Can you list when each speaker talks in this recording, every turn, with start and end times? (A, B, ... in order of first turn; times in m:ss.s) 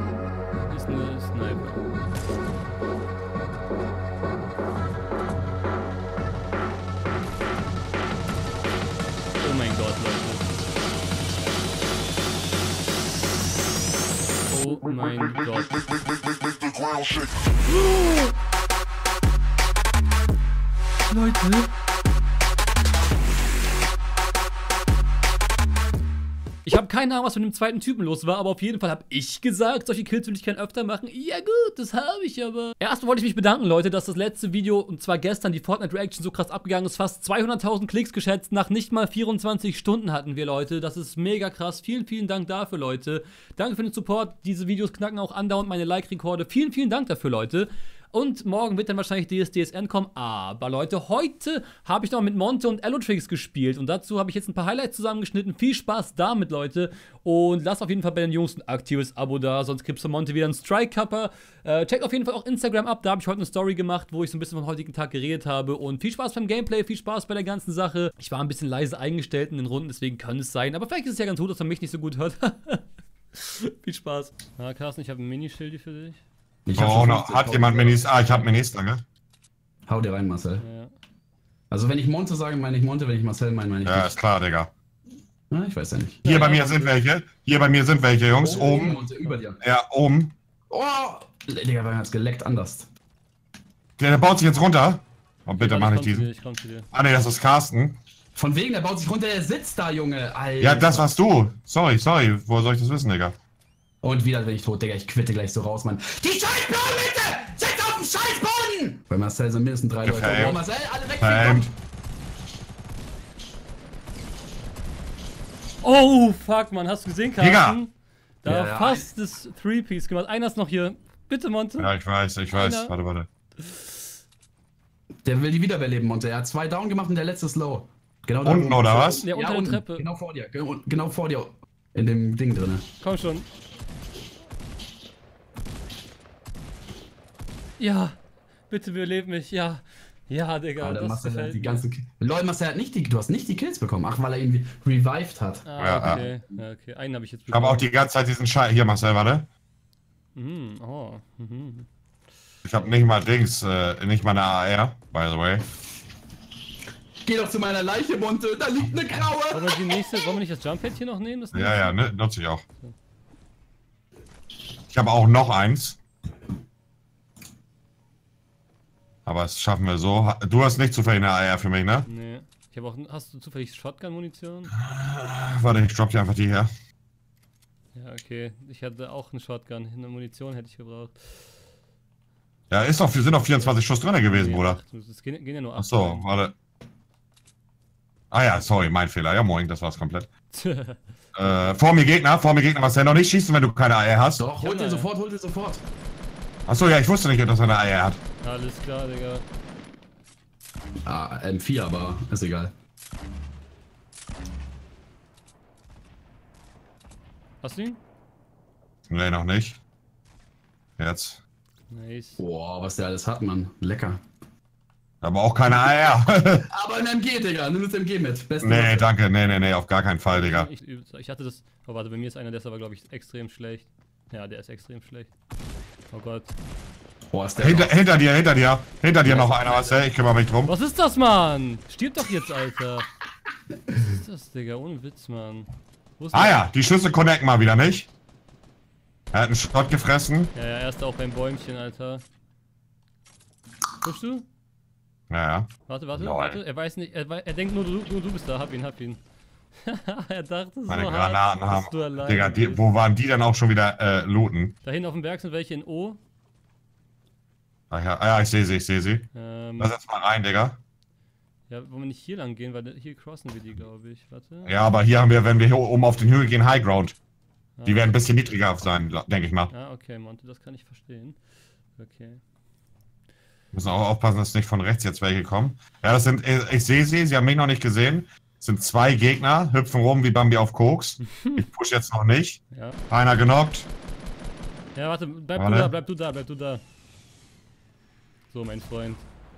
0:00.6-0:01.8 A
0:09.4-0:10.5 A
0:14.5-0:15.9 A
0:17.7-0:18.3 A
0:21.1-0:21.7 A
0:26.6-1:16.2 A
1:16.7-1:18.0 B
1:16.8-1:19.0 C
1:19.9-1:20.6 B
1:20.6-1:20.9 A
1:21.7-1:24.1 B
1:23.8-1:24.7 C
1:25.5-1:26.2 B
1:26.2-1:27.0 A
1:26.2-1:29.0 C
1:28.4-1:29.6 B
1:28.7-1:29.4 A
1:29.6-1:30.3 C
1:30.7-1:32.9 B
1:34.0-1:36.3 C
1:35.6-1:36.9 A
1:36.9-1:38.0 C
1:38.3-1:41.0 B
1:40.6-1:43.4 C
1:44.0-1:51.7 B
1:50.0-1:50.6 C
1:51.2-1:51.7 C
1:55.8-1:57.9 A
1:57.4-1:57.8 C
1:58.4-2:01.9 A
1:58.4-1:59.1 B
2:01.8-2:03.3 C
2:02.5-2:02.9 A
2:03.6-2:03.9 A
2:05.2-2:12.8 B
2:08.4-2:09.2 C
2:09.2-2:10.1 A
2:13.0-2:13.5 A
2:17.8-2:18.2 A
2:18.7-2:21.8 A
2:20.8-2:26.3 B
2:25.7-2:27.8 A
2:25.8-2:26.3 C
2:27.5-2:29.5 C
2:30.4-2:31.8 A
2:32.6-2:35.6 C
2:37.2-2:39.8 B
2:39.5-2:42.0 A
2:41.5-2:42.6 C
2:44.9-2:46.0 C
2:49.2-2:52.1 C
2:52.1-2:54.7 A
2:54.8-2:56.7 C
2:57.9-3:01.2 A
3:02.7-3:04.8 C
3:04.3-3:06.2 A
3:05.8-3:06.5 C
3:08.3-3:10.3 C
3:10.5-3:11.8 A
3:11.3-3:14.4 C
3:14.4-3:15.8 B
3:14.6-3:15.1 A
3:16.7-3:18.2 C
3:18.4-3:19.4 A
3:21.1-3:22.7 B
3:27.6-3:28.0 A
3:29.1-3:29.8 C
3:31.0-3:31.4 C
3:31.9-3:32.4 A
3:32.4-3:34.2 B
3:35.2-3:36.7 C
3:36.7-3:39.1 B
3:38.6-3:40.7 C
3:40.3-3:45.3 A
3:46.1-3:46.5 A
3:47.3-3:48.0 B
3:47.6-3:50.7 C
3:49.2-3:50.0 B
3:50.6-3:53.1 A
3:53.9-3:55.7 A
3:56.2-3:56.6 A
3:56.3-3:58.1 C
3:59.3-4:00.5 C
4:00.5-4:02.2 A
4:04.0-4:04.4 A
4:05.3-4:06.6 C
4:05.9-4:09.2 A
4:09.8-4:12.8 A
4:10.9-4:14.7 C
4:14.8-4:16.2 A
4:17.9-4:19.3 C
4:19.4-4:19.9 A
4:19.8-4:20.8 C
4:21.7-4:24.8 A
4:24.6-4:27.2 C
4:27.8-4:28.1 A
4:27.9-4:29.7 C
4:29.7-4:31.4 A
4:32.0-4:32.4 A
4:33.7-4:43.9 C
4:41.4-4:41.6 A
4:42.7-4:43.0 A
4:45.0-4:46.8 A
4:45.6-4:45.9 C
4:48.5-4:49.2 A